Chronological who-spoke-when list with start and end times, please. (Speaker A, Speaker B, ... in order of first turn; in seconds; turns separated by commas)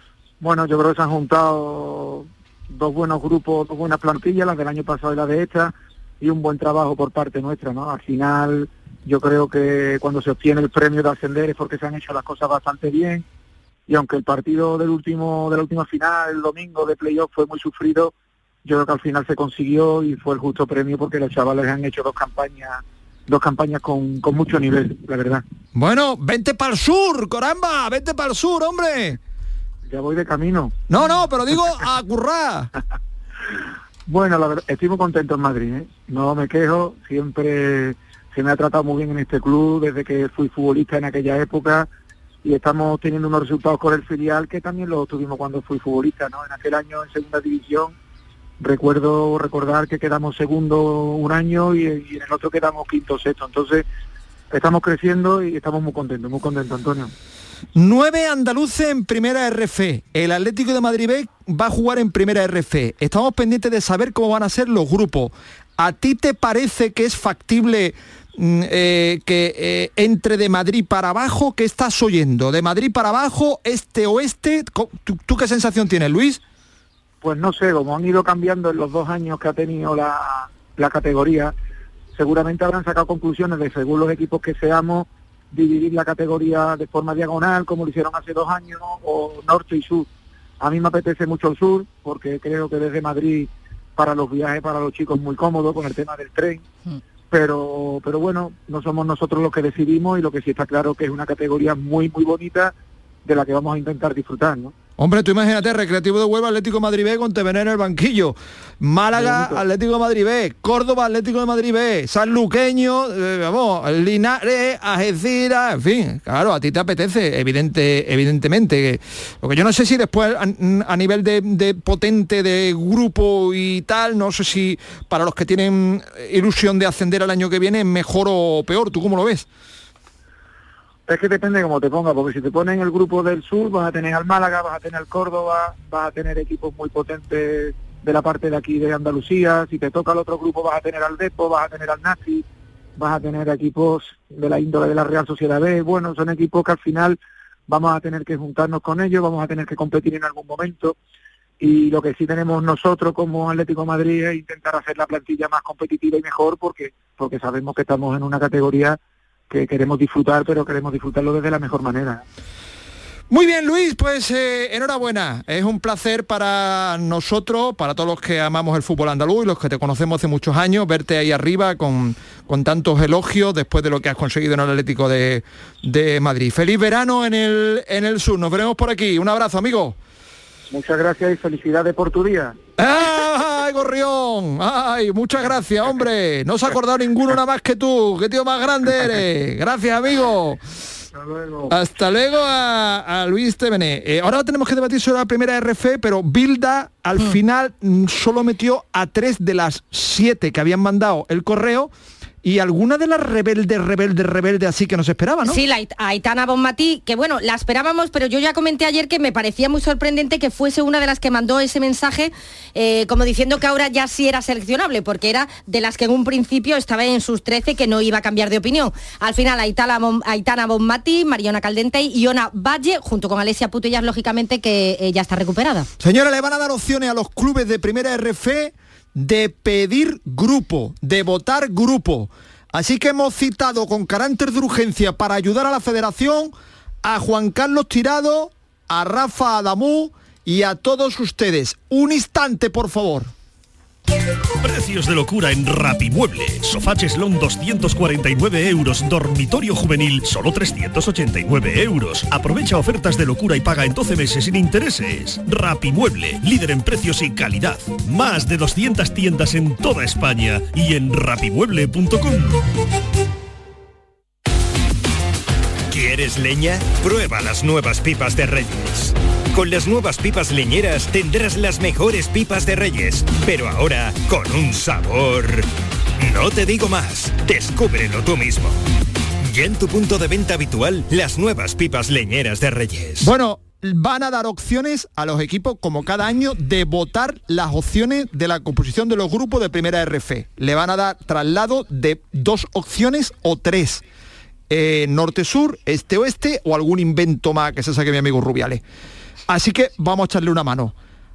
Speaker A: 0.4-13.2, Speaker A: 13.9-18.1, Speaker A: 18.6-25.4, Speaker B: 25.7-29.2, Speaker A: 29.9-30.8, Speaker B: 30.9-32.7, Speaker A: 34.1-41.9, Speaker A: 42.4-48.0, Speaker A: 48.6-53.9, Speaker A: 54.5-57.1, Speaker B: 57.7-76.4, Speaker A: 77.2-81.5, Speaker A: 82.1-90.1, Speaker A: 90.6-96.6, Speaker A: 97.3-102.7, Speaker A: 103.2-104.7, Speaker B: 105.0-129.4, Speaker A: 131.1-142.4, Speaker A: 143.0-150.9, Speaker A: 151.6-159.0, Speaker A: 159.5-162.2, Speaker B: 163.3-180.0, Speaker A: 180.7-182.6, Speaker B: 182.8-190.6, Speaker A: 191.1-191.7, Speaker B: 191.7-201.9, Speaker B: 202.4-205.6, Speaker C: 205.4-225.9, Speaker B: 226.0-243.3, Speaker D: 244.6-262.6, Speaker E: 265.9-275.7, Speaker E: 276.2-278.8, Speaker E: 279.4-283.3, Speaker B: 283.2-294.0, Speaker B: 294.7-298.8, Speaker B: 299.5-300.9